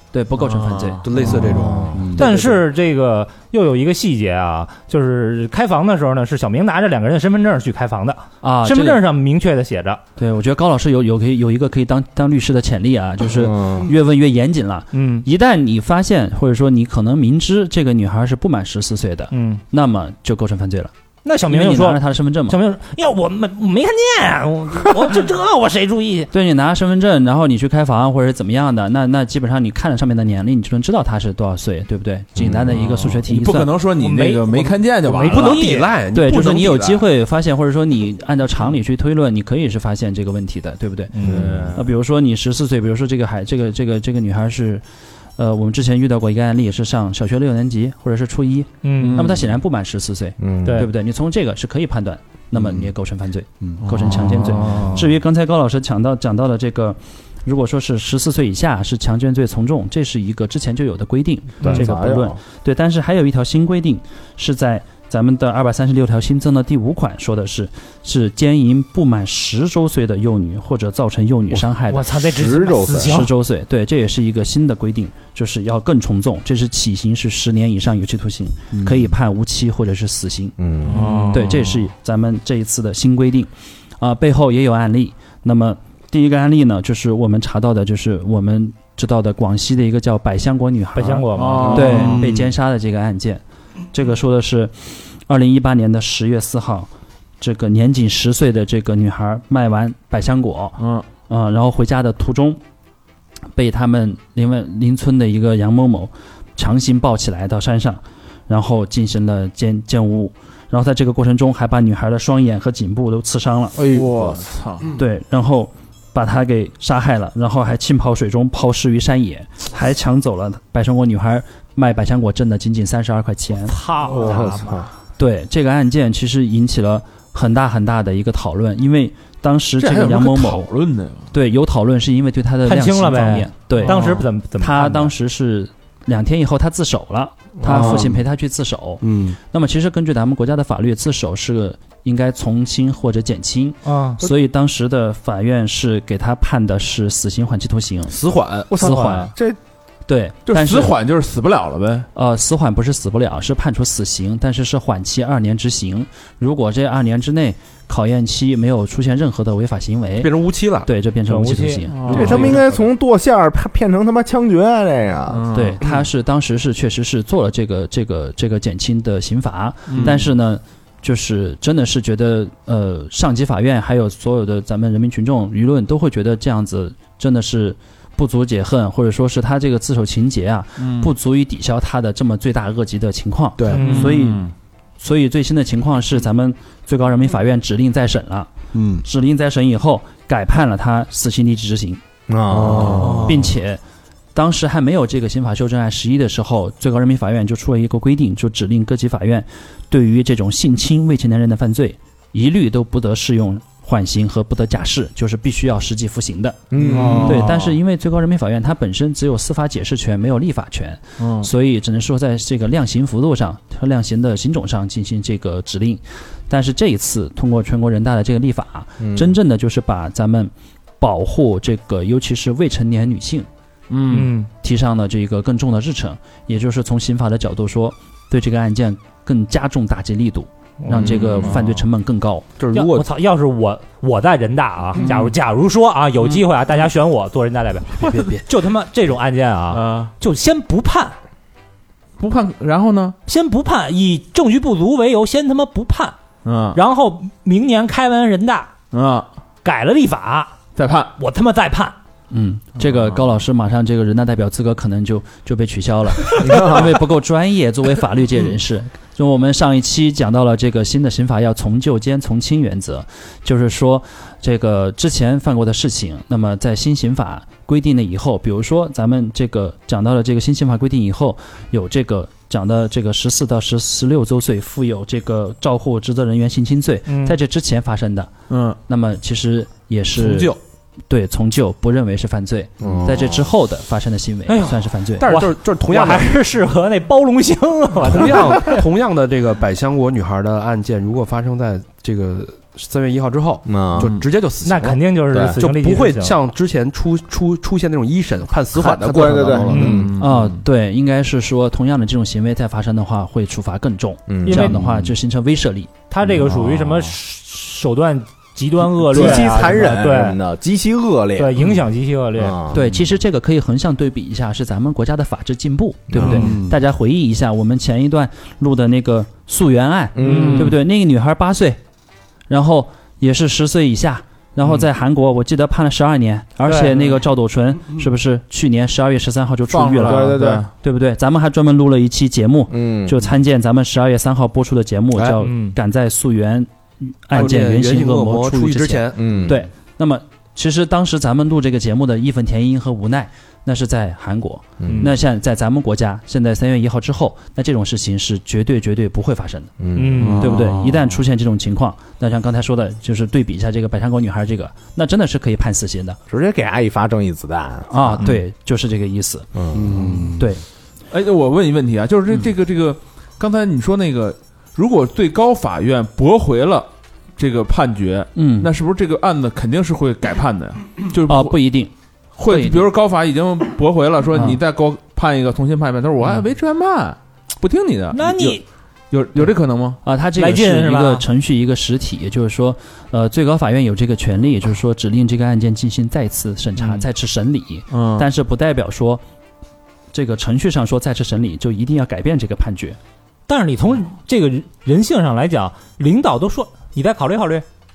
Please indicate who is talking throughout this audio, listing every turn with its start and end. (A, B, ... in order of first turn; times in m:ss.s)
0:00.1-0:01.0 A
0:00.4-0:01.6 B
0:01.0-0:02.5 C
0:01.2-0:02.2 D
0:01.9-0:02.5 A
0:02.2-0:10.0 E
0:08.4-0:09.0 A
0:10.2-0:20.9 A
0:13.2-0:13.9 D
0:14.9-0:15.2 E
0:19.3-0:19.6 E
0:21.2-0:26.3 E
0:21.5-0:22.6 A
0:26.3-0:33.7 A
0:32.4-0:32.8 D
0:32.7-0:35.7 B
0:34.0-0:35.9 E
0:35.2-0:37.0 C
0:36.1-0:41.1 A
0:41.1-0:41.7 E
0:41.2-0:41.8 B
0:41.2-0:41.7 D
0:41.7-0:44.8 A
0:45.4-1:12.1 A
0:48.8-0:49.4 E
0:49.0-0:49.4 B
0:50.4-0:50.8 D
0:50.6-0:50.9 E
0:52.5-0:52.9 D
0:53.8-0:55.0 B
0:54.7-0:55.0 E
1:01.6-1:02.4 D
1:11.8-1:13.3 E
1:12.2-1:13.2 D
1:13.0-1:20.6 A
1:20.6-1:21.1 D
1:20.8-1:21.7 B
1:21.0-1:21.3 E
1:21.3-1:33.4 A
1:30.9-1:32.2 E
1:31.3-1:32.2 B
1:32.1-1:32.5 C
1:33.9-1:36.9 A
1:37.4-1:42.6 A
1:40.8-1:41.0 B
1:43.5-1:53.8 A
1:53.8-1:54.4 D
1:53.8-1:54.9 B
1:55.0-2:03.8 A
2:03.6-2:04.8 E
2:04.0-2:04.9 D
2:05.2-2:10.7 A
2:09.8-2:11.3 B
2:11.3-2:28.1 A
2:12.6-2:15.1 E
2:13.8-2:14.2 B
2:17.6-2:18.2 D
2:19.0-2:19.4 C
2:23.8-2:24.2 E
2:28.1-2:28.8 C
2:28.7-2:29.6 D
2:28.8-2:29.3 A
2:28.8-2:29.3 E
2:30.1-2:30.9 A
2:30.5-2:32.1 B
2:32.1-2:40.3 A
2:40.2-2:40.9 C
2:40.8-2:42.6 A
2:41.3-2:42.7 E
2:41.9-2:42.6 B
2:42.1-2:45.4 D
2:45.3-2:45.8 B
2:45.5-3:04.4 A
2:49.9-2:50.2 B
3:00.8-3:01.1 B
3:03.6-3:04.0 C
3:03.7-3:04.5 B
3:03.7-3:04.2 E
3:05.0-3:08.5 A
3:08.7-3:09.0 C
3:09.0-3:12.0 A
3:12.3-3:13.4 D
3:12.5-3:13.5 C
3:12.8-3:13.4 B
3:13.2-3:13.8 A
3:14.3-3:26.6 A
3:26.7-3:27.5 D
3:26.8-3:27.7 B
3:26.9-3:27.5 E
3:27.2-3:43.5 A
3:31.2-3:31.5 B
3:39.0-3:39.3 D
3:43.9-3:44.3 B
3:44.1-3:44.5 E
3:44.6-3:52.5 A
3:50.8-3:51.6 E
3:50.9-3:51.6 D
3:52.6-3:53.1 C
3:52.7-4:01.2 E
3:55.0-3:55.3 B
3:57.9-3:58.4 A
3:59.7-4:00.1 B
4:02.2-4:03.2 B
4:03.3-4:06.1 E
4:06.4-4:06.8 B
4:06.7-4:08.7 E
4:08.9-4:09.3 B
4:09.6-4:10.5 E
4:10.8-4:11.1 B
4:11.2-4:12.0 E
4:12.3-4:38.3 A
4:16.4-4:17.0 D
4:37.1-4:37.4 E
4:38.5-4:38.8 B
4:38.9-4:40.6 A
4:40.2-4:40.6 C
4:41.1-4:45.3 A
4:42.8-4:43.4 D
4:44.5-4:48.8 E
4:45.2-4:46.3 C
4:48.0-4:55.0 C
4:53.6-4:54.1 D
4:54.0-4:54.2 B
4:54.6-4:56.4 E
4:55.3-4:55.6 D
4:55.6-5:00.1 C
4:58.7-5:00.1 D
4:59.7-5:00.0 E
4:59.7-5:00.6 B
5:00.2-5:05.9 A
5:04.3-5:04.8 D
5:04.4-5:04.8 E
5:06.1-5:10.4 E
5:06.3-5:07.2 B
5:09.0-5:11.7 D
5:11.4-5:12.6 E
5:12.4-5:12.8 D
5:12.7-5:21.8 A
5:16.2-5:16.4 B
5:16.2-5:16.8 C
5:20.1-5:20.7 D
5:20.2-5:20.8 E
5:20.2-5:20.7 B
5:22.5-5:49.7 A
5:26.6-5:27.2 E
5:29.7-5:30.7 B
5:30.0-5:30.7 D
5:32.7-5:33.3 D
5:35.4-5:35.8 E
5:37.3-5:39.4 C
5:39.1-5:39.7 D
5:44.8-5:45.1 D
5:44.8-5:45.1 E
5:49.8-5:50.4 D
5:49.9-5:50.6 E
5:50.1-5:51.0 B
5:50.3-5:56.2 A
5:56.3-5:58.2 D
5:57.9-5:59.5 A
5:59.6-6:00.3 D
5:59.7-6:00.4 C
6:00.4-6:00.6 A
6:01.1-6:11.6 B
6:08.3-6:08.7 A
6:11.3-6:11.9 A
6:12.4-6:20.0 B
6:12.4-6:12.8 A
6:14.3-6:14.6 A
6:18.1-6:18.6 E
6:19.4-6:29.2 A
6:20.4-6:21.2 E
6:27.9-6:28.3 B
6:30.1-6:33.0 A
6:33.5-6:37.6 E